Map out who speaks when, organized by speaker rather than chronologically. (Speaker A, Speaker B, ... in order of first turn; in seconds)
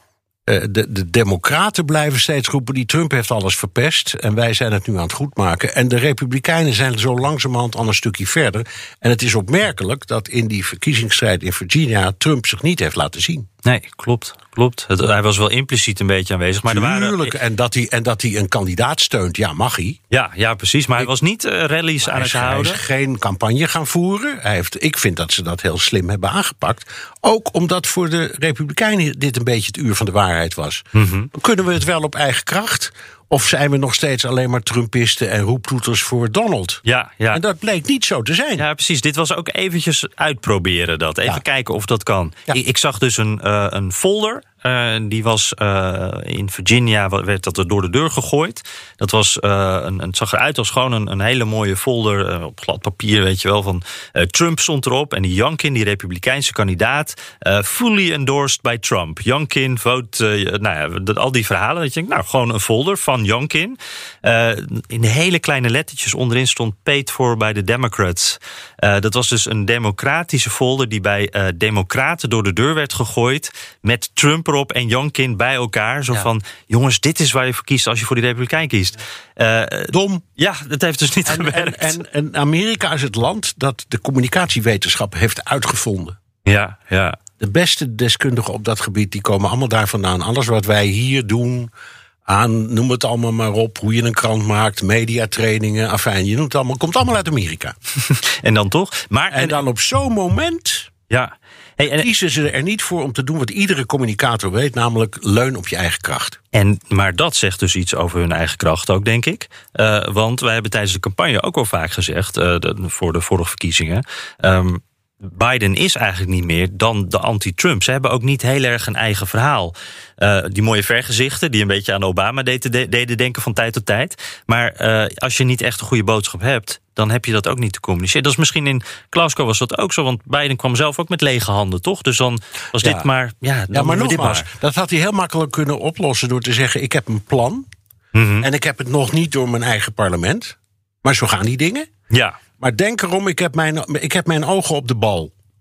Speaker A: 0.5-13.5, 16.7-20.0, 22.0-30.8, 31.3-38.6, 79.9-80.2, 81.2-86.2, 87.4-91.7, 92.2-97.8, 99.3-100.9, 101.9-106.4, 132.8-133.1, 133.7-137.7, 138.4-141.9, 142.6-145.3
Speaker B: 13.6-17.3, 20.1-22.8, 30.9-31.3, 36.8-37.4, 38.6-82.0, 86.5-87.2, 98.2-99.6, 101.1-102.1, 106.5-134.4, 138.1-138.5, 142.1-142.4